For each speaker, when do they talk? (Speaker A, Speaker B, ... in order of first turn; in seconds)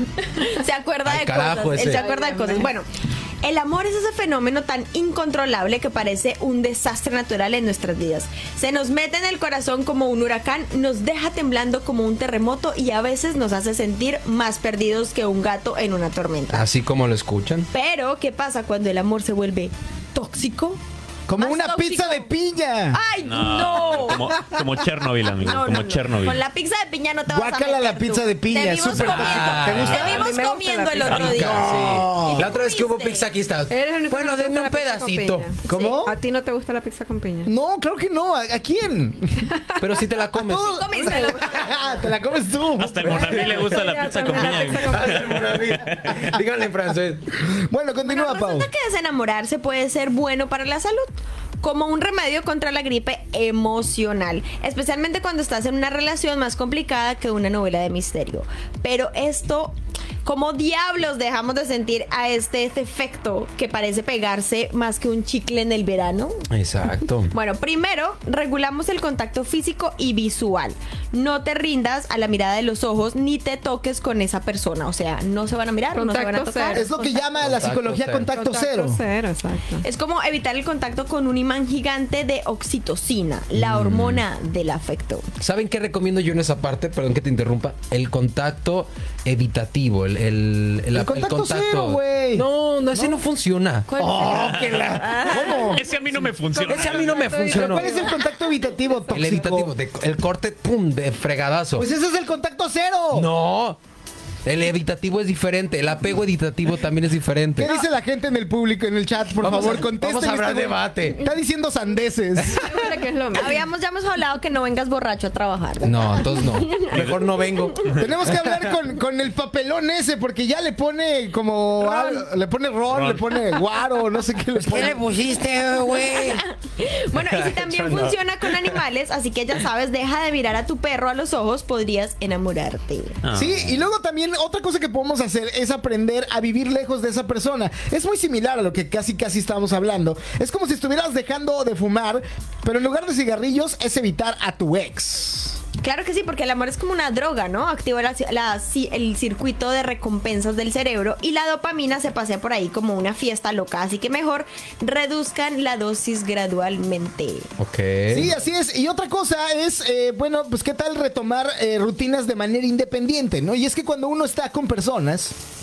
Speaker A: 0.2-2.9, 3.4-16.7, 17.7-20.8, 21.4-22.3, 22.9-24.4, 25.4-33.3, 35.7-36.0, 40.5-41.9, 48.0-66.4, 67.3-77.5, 79.8-85.3, 93.9-95.7, 107.6-107.9, 113.3-116.9, 121.8-122.2, 125.8-133.2, 145.8-157.5
Speaker B: 1.0-2.0, 16.5-17.7, 28.9-30.0, 31.0-35.5, 39.8-41.0, 43.0-43.7, 44.4-47.3, 66.5-67.3, 77.4-78.3, 83.5-84.2, 85.4-95.5, 96.6-98.1, 99.1-101.9, 103.1-103.8, 104.4-107.7, 109.4-111.2, 115.8-118.8, 124.6-126.4, 127.1-128.8, 157.6-158.3
Speaker C: 1.8-2.7, 29.9-31.3, 33.7-37.5, 43.5-45.4, 75.9-76.9, 78.3-79.8, 96.5-98.3, 112.5-113.6
Speaker D: 21.3-23.0, 27.3-30.4, 31.3-32.5, 35.7-36.1, 37.5-39.5, 40.3-43.8, 47.5-48.7, 76.7-79.0, 90.9-93.2, 94.0-95.8, 97.5-99.7, 101.8-103.3, 107.6-113.0, 118.0-125.0, 133.3-145.6, 158.1-165.3
Speaker E: 23.2-26.4, 29.8-30.0, 42.8-46.3, 94.3-94.9, 95.7-97.3, 116.9-117.2, 122.9-123.4, 133.2-133.7